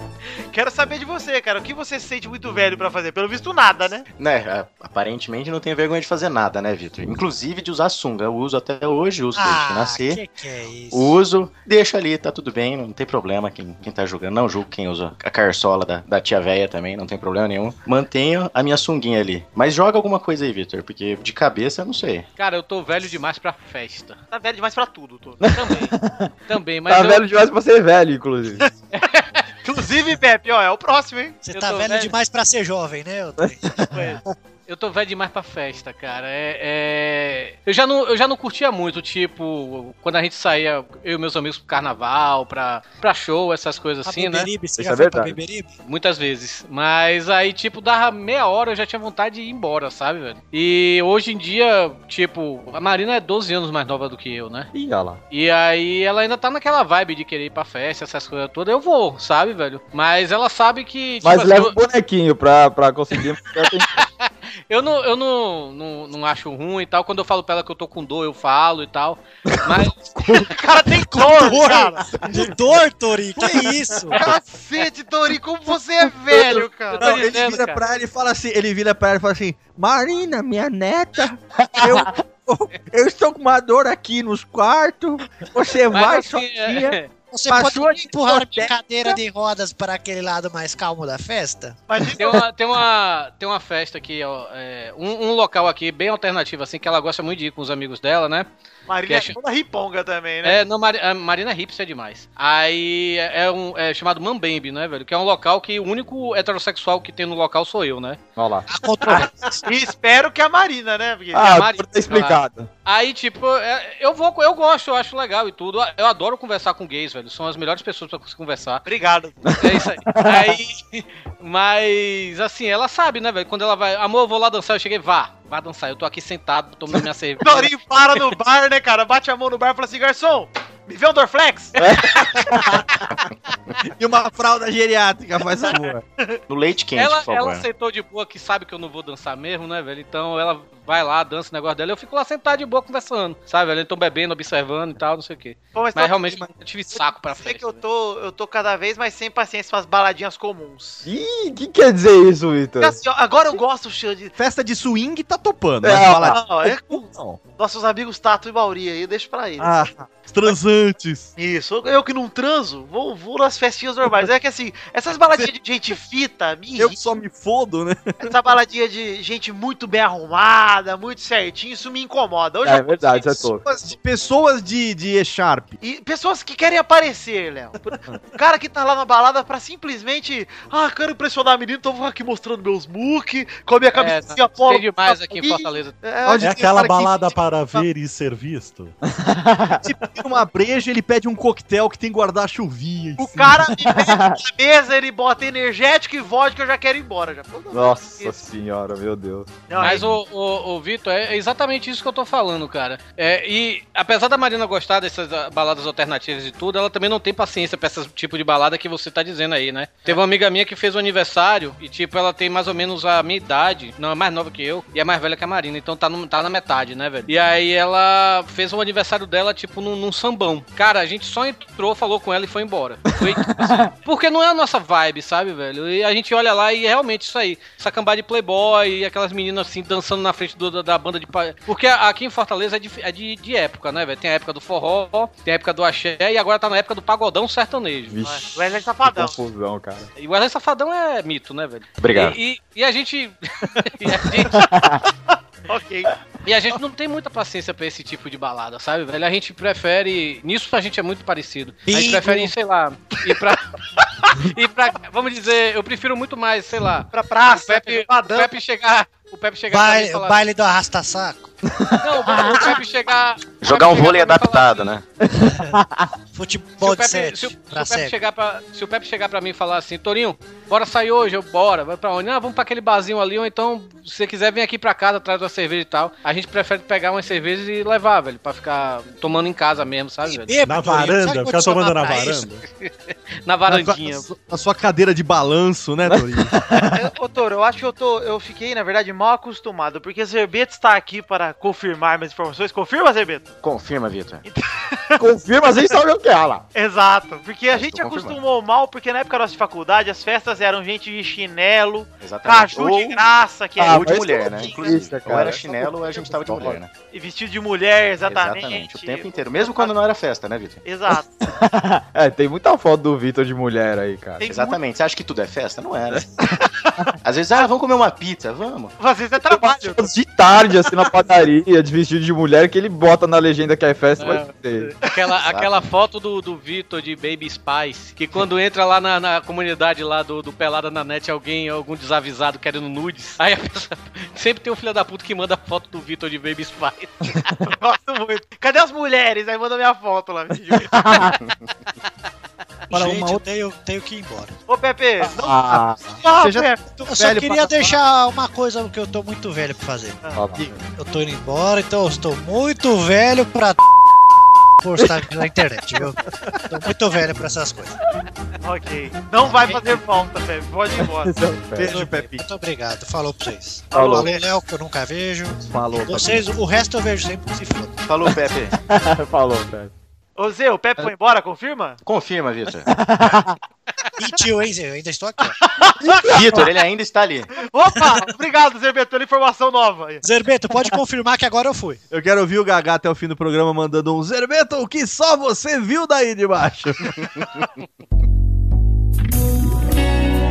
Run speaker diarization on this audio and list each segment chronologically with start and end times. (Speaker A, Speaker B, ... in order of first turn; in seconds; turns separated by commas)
Speaker A: 0.5-4.1, Speaker B: 4.2-10.2, Speaker C: 9.3-11.2, Speaker B: 10.9-22.3, Speaker D: 22.4-24.2, Speaker A: 24.3-25.4, Speaker E: 25.4-26.3, Speaker D: 25.5-25.9, Speaker D: 26.5-27.3, Speaker E: 26.9-28.7, Speaker D: 28.9-29.4, Speaker A: 29.6-31.4, Speaker C: 31.4-33.8, Speaker D: 31.5-32.1, Speaker E: 33.4-33.9, Speaker D: 33.9-44.5, Speaker C: 44.1-45.7, Speaker E: 44.8-45.4, Speaker D: 45.9-54.7, Speaker E: 54.7-55.2, Speaker D: 55.3-61.8, Speaker E: 61.2-64.0, Speaker D: 64.0-70.5, Speaker E: 69.5-70.5, Speaker A: 70.5-72.2, Speaker C: 71.2-74.2, Speaker A: 74.1-77.1, Speaker F: 76.5-89.2, Speaker D: 76.9-77.8, Speaker E: 81.6-82.1, Speaker D: 85.9-87.1, Speaker C: 87.3-91.8, Speaker A: 91.9-92.4, Speaker D: 92.1-98.5, Speaker A: 98.9-100.6, Speaker D: 99.1-99.4, Speaker D: 100.4-108.2, Speaker E: 108.4-108.7, Speaker C: 108.7-109.6, Speaker A: 109.6-111.5, Speaker E: 111.3-112.7, Speaker D: 111.4-118.8, Speaker A: 118.8-119.5, Speaker E: 119.5-120.6, Speaker D: 119.6-127.7, Speaker A: 127.4-132.6, Speaker E: 131.8-132.9, Speaker F: 133.8-136.0, Speaker B: 136.5-137.7, Speaker D: 137.0-147.8, Speaker A: 145.8-151.1, Speaker E: 151.0-153.0, Speaker A: 152.8-154.3, Speaker F: 154.4-157.4, Speaker E: 155.8-156.4, Speaker A: 156.2-159.8, Speaker F: 159.6-161.3, Speaker A: 161.4-167.0, Speaker F: 166.8-168.3, Speaker A: 168.2-173.5, Speaker E: 172.7-173.6, Speaker F: 173.6-175.8, Speaker A: 175.8-187.3, Speaker D: 183.9-185.9, Speaker F: 186.2-187.2, Speaker G: 186.4-189.0, Speaker E: 189.0-189.9, Speaker F: 189.8-193.6, Speaker A: 193.2-198.4, Speaker E: 193.6-194.4, Speaker E: 197.7-199.5, Speaker A: 199.7-200.1, Speaker D: 199.8-238.2, Speaker E: 223.2-223.9, Speaker E: 238.1-240.1, Speaker A: 238.2-239.4, Speaker D: 240.2-244.6, Speaker B: 242.0-242.4, Speaker E: 244.5-245.1, Speaker A: 245.7-246.1, Speaker D: 246.4-253.6, Speaker C: 251.9-252.5, Speaker D: 254.3-260.4, Speaker A: 257.1-258.5, Speaker C: 259.7-261.5, Speaker D: 262.0-264.9, Speaker B: 263.6-265.0, Speaker E: 265.2-266.1, Speaker C: 266.3-268.1, Speaker D: 266.8-280.6, Speaker C: 280.2-282.4, Speaker G: 280.6-282.6, Speaker D: 282.7-284.3, Speaker F: 283.7-286.5, Speaker E: 286.1-287.0, Speaker A: 286.9-293.5, Speaker B: 293.6-294.4, Speaker A: 294.5-295.2, Speaker E: 295.2-296.6, Speaker A: 296.8-304.9, Speaker B: 297.7-298.4, Speaker B: 302.2-303.2, Speaker E: 303.8-306.8, Speaker B: 303.9-306.9, Speaker A: 307.1-309.9, Speaker B: 308.3-310.8, Speaker A: 310.8-311.4, Speaker E: 311.4-314.5, Speaker A: 314.4-314.8, Speaker B: 314.4-316.3, Speaker A: 316.8-317.1, Speaker B: 317.2-319.0, Speaker A: 319.0-320.1, Speaker E: 319.4-324.9, Speaker D: 324.2-337.5, Speaker B: 325.4-325.9, Speaker A: 337.7-341.0, Speaker E: 340.9-341.4, Speaker C: 342.9-344.6, Speaker F: 342.9-343.4, Speaker A: 344.7-346.8, Speaker E: 345.4-346.0, Speaker F: 346.4-347.9, Speaker C: 346.8-350.2, Speaker E: 350.4-350.9, Speaker C: 350.9-353.8, Speaker C: 354.8-358.0, Speaker A: 358.6-361.3, Speaker C: 359.4-359.9, Speaker E: 361.2-362.0, Speaker F: 361.8-362.4, Speaker C: 361.8-368.0, Speaker A: 363.9-364.5, Speaker E: 363.9-364.3, Speaker F: 365.7-366.5, Speaker B: 368.0-368.8, Speaker E: 368.9-369.9, Speaker A: 370.4-372.0, Speaker B: 372.0-372.9, Speaker E: 372.9-373.6, Speaker C: 374.2-375.6, Speaker A: 375.6-376.7, Speaker E: 376.1-376.6, Speaker B: 376.3-377.5, Speaker A: 377.6-380.2, Speaker C: 380.2-382.0, Speaker F: 382.1-387.3